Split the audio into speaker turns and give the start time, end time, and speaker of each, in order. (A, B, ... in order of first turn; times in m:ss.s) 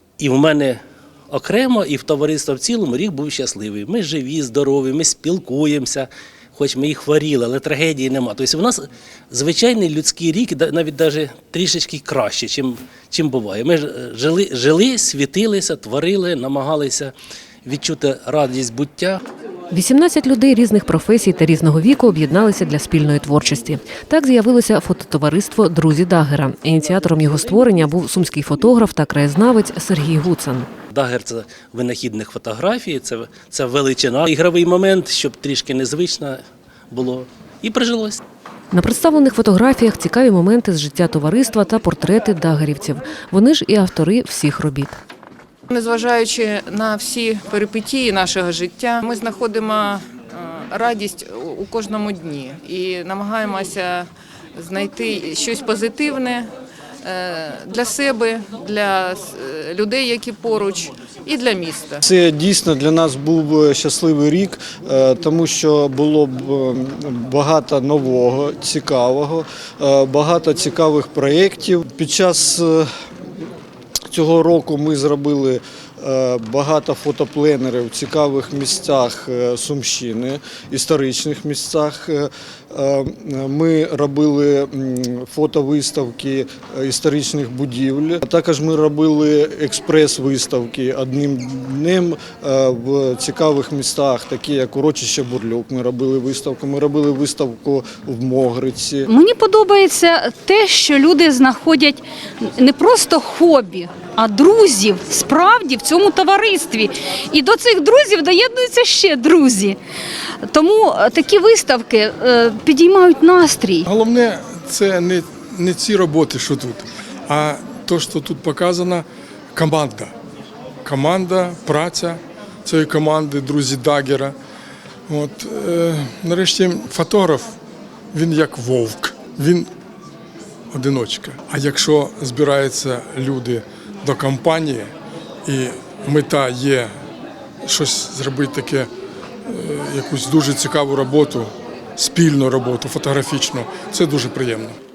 0:00.2-0:19.2 A
0:19.7-0:30.7 B
0:30.9-0:38.2 A
0:38.7-0:45.0 B
0:45.7-0:56.5 C
0:57.0-1:02.0 C
1:02.0-1:12.9 D
1:14.1-1:39.1 D
1:39.1-1:49.8 E
1:50.4-1:53.9 E
1:53.9-2:00.1 F
2:00.8-2:04.4 F
2:05.1-2:07.6 F
2:08.1-2:09.7 F
2:10.7-2:14.9 F
2:15.4-2:16.9 F
2:17.6-2:18.9 F
2:19.5-2:24.8 F